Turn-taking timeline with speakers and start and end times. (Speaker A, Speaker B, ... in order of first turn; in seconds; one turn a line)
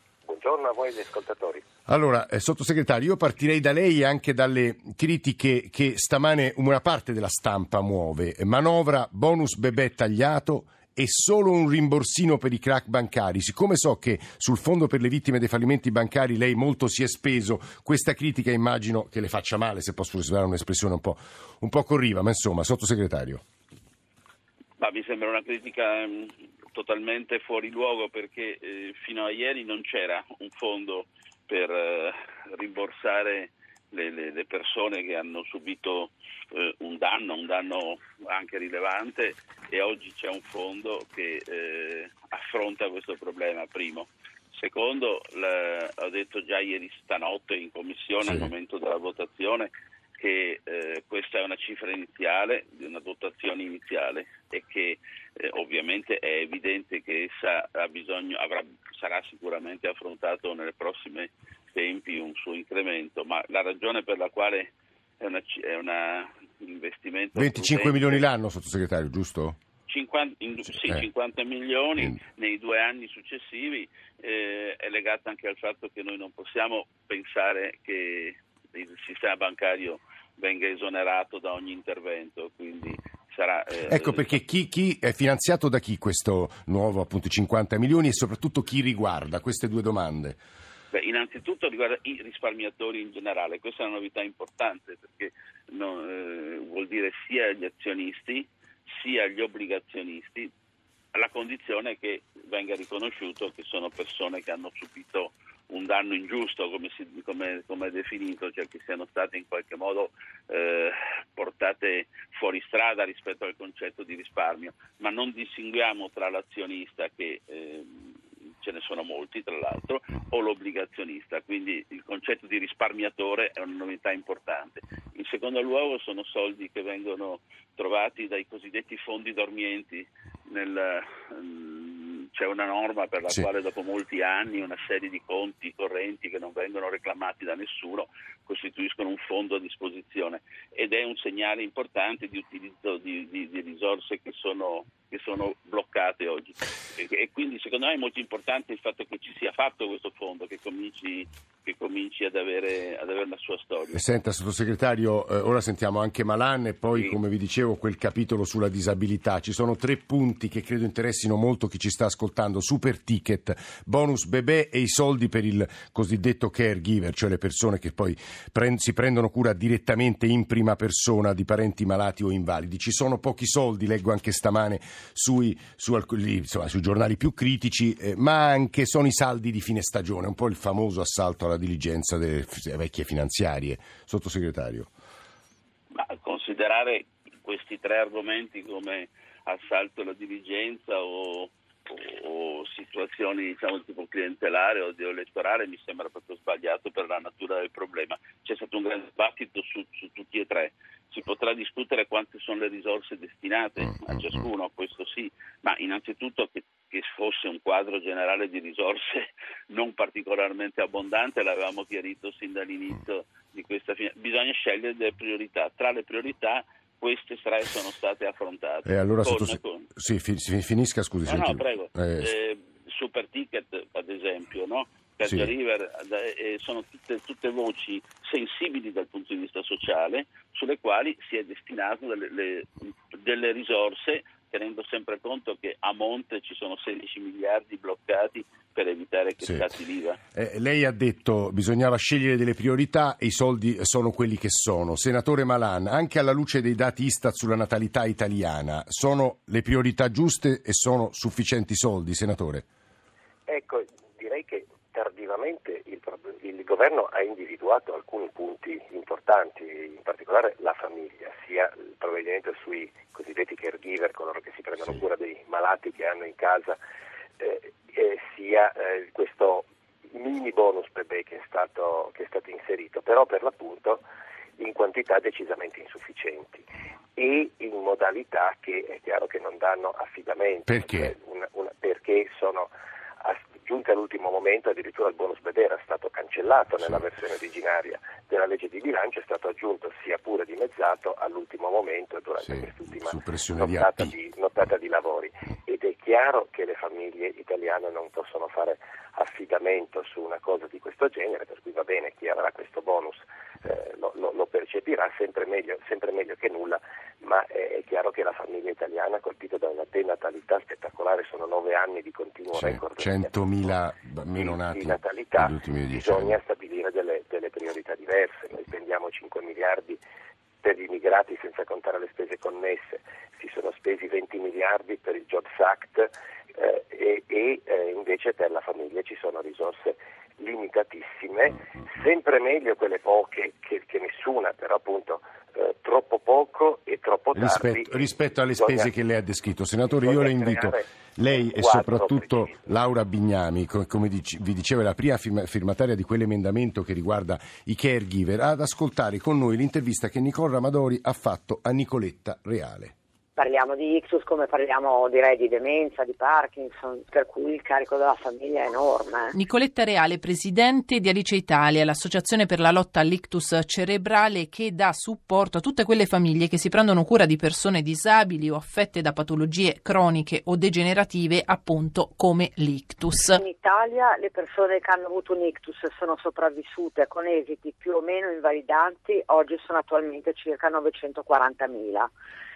Speaker A: 0.2-1.6
Speaker B: 1.9-23.4
Speaker C: 24.8-68.2
Speaker B: 48.2-48.5
Speaker B: 67.4-69.6
Speaker C: 69.9-84.3
Speaker B: 83.9-90.4
Speaker C: 90.9-100.5
Speaker C: 101.1-154.0
Speaker B: 153.9-184.9
Speaker C: 185.9-219.9
Speaker B: 218.9-222.3
Speaker C: 221.3-240.2
Speaker B: 225.2-225.5
Speaker B: 240.3-252.7
Speaker A: 253.5-266.8
Speaker A: 267.4-274.0
Speaker A: 274.6-276.6
Speaker A: 277.2-282.7
Speaker B: 280.7-281.1
Speaker A: 283.2-313.3
Speaker B: 292.4-294.1
Speaker B: 312.6-316.4
Speaker A: 314.4-320.0
Speaker A: 320.6-338.9
Speaker B: 337.3-352.9
Speaker A: 340.0-342.6
Speaker D: 353.4-359.4
Speaker E: 359.3-373.4
Speaker D: 373.3-382.1